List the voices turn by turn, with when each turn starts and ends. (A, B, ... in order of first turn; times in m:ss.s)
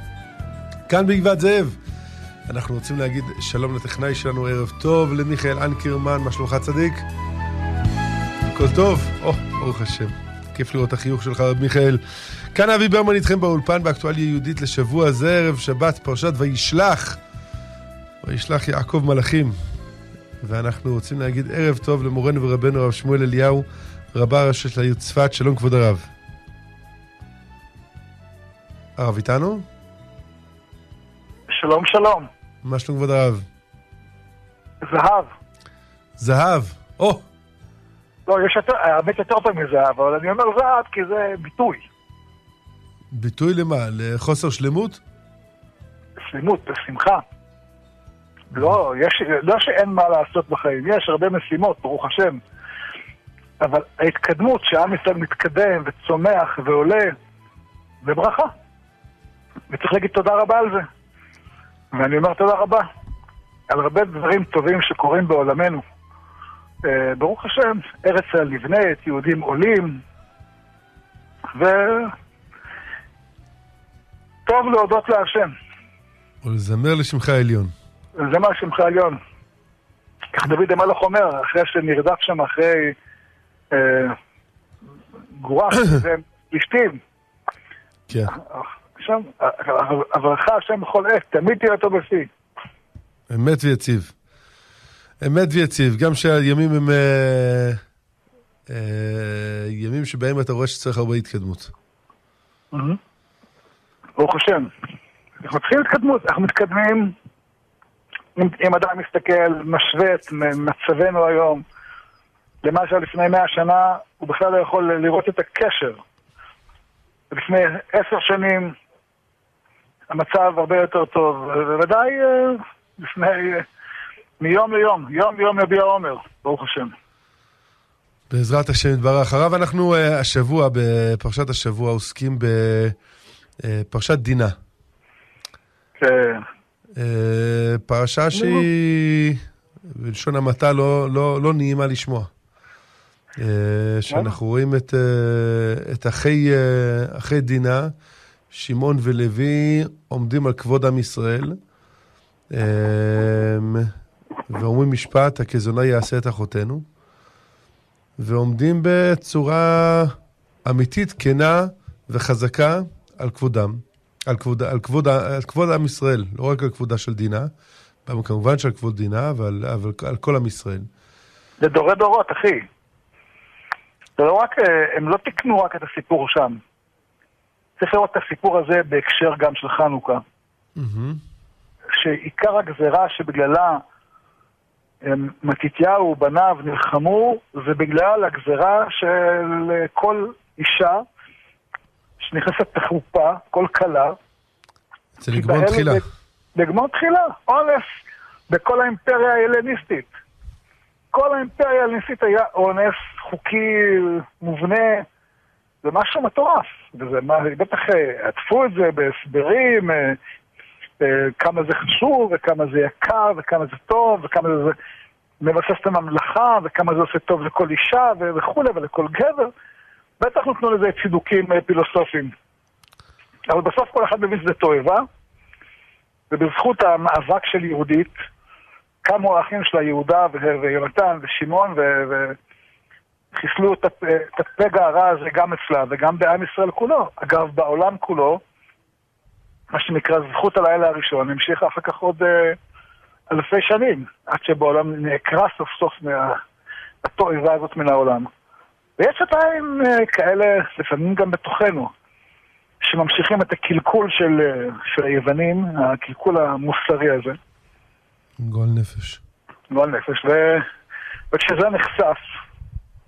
0:00.9-0:01.8 A
0:02.5-0:07.1 A
0:08.5-0:17.2 A
0:18.2-0:19.6 A
0:20.4-0:26.1 A
0:29.0-0:29.7 A
0:31.5-0:32.3 B
0:32.6-0:33.5 A
0:34.8-0:35.3 B
0:36.2-0:37.2 A
0:38.3-0:41.8 B
0:43.1-0:45.0 A
0:46.2-0:47.2 B
0:48.5-0:52.4 B
0:53.6-0:57.2 B
0:58.0-0:58.5 B
0:59.7-1:00.9 B
1:01.9-1:02.9 B
1:03.7-1:05.8 B
1:06.8-1:10.0 B
1:11.5-1:12.1 B
1:14.5-1:15.5 B
1:16.4-1:17.7 A
1:18.2-1:19.2 B
1:20.3-1:23.0 B
1:23.7-1:24.2 B
1:25.4-1:27.0 B
1:28.1-1:28.4 A
1:28.3-1:32.3 B
1:33.3-1:34.1 A
1:35.2-1:37.8 A
1:38.7-1:41.7 A
1:42.7-1:43.0 B
1:44.2-1:44.7 B
1:45.4-1:47.1 B
1:48.4-1:51.6 B
1:52.6-1:56.0 B
1:57.3-1:58.8 B
2:00.1-2:03.7 B
2:04.4-2:06.9 B
2:08.3-2:13.0 A
2:13.6-2:14.6 A
2:16.0-2:16.4 B
2:17.0-2:22.3 A
2:18.4-2:18.7 B
2:23.4-2:27.9 A
2:24.1-2:24.4 B
2:28.5-2:31.6 A
2:32.5-2:33.9 A
2:34.5-2:36.8 A
2:38.2-2:47.5 A
2:48.1-2:50.9 A
2:51.6-2:52.7 B
2:54.2-2:56.6 B
2:57.8-3:00.2 B
3:00.8-3:01.2 A
3:02.0-3:03.8 B
3:05.0-3:11.0 B
3:12.2-3:14.2 B
3:15.2-3:16.0 A
3:15.3-3:16.0 B
3:16.6-3:18.0 B
3:18.5-3:20.1 B
3:21.1-3:25.1 B
3:25.8-3:30.2 B
3:31.0-3:34.8 B
3:35.4-3:39.5 B
3:40.2-3:42.3 B
3:43.5-3:45.1 B
3:46.3-3:48.2 B
3:49.0-3:52.4 B
3:53.3-3:58.4 B
3:59.7-4:02.6 B
4:03.3-4:06.4 B
4:07.0-4:08.3 B
4:09.0-4:11.9 B
4:12.8-4:17.4 B
4:18.4-4:19.2 A
4:19.7-4:20.7 B
4:21.3-4:22.3 B